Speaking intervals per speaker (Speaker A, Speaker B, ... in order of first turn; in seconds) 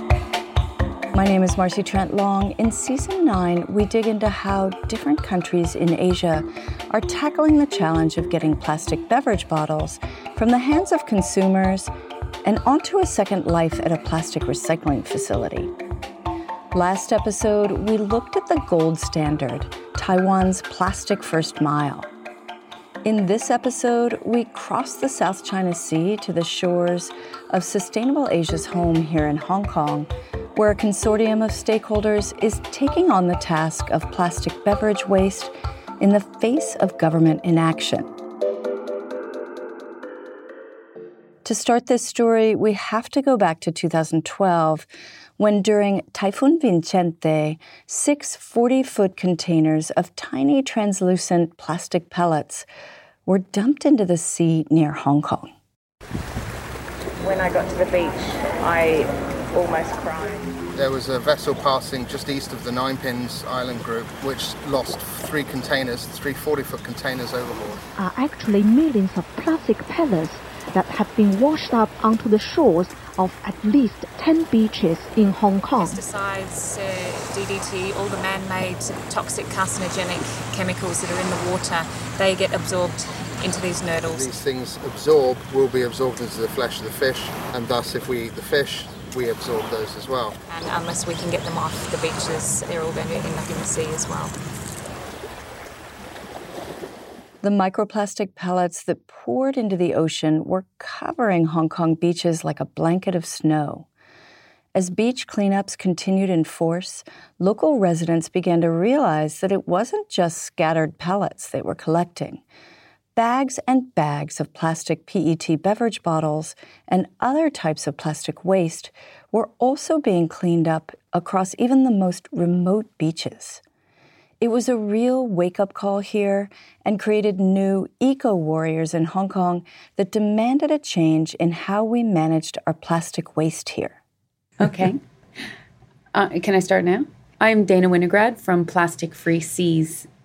Speaker A: 1.1-11.9, 12.4-15.7, 16.7-22.1, 23.0-38.1, 41.4-52.6, 53.2-55.5, 97.4-103.9, 104.7-112.4, 113.2-123.6, 124.4-134.0
Speaker B: 57.2-60.4
Speaker C: 60.7-67.8, 84.0-90.4
Speaker D: 67.9-76.0
Speaker E: 75.8-84.2, 90.5-94.3
Speaker F: 134.6-135.0, 136.1-140.1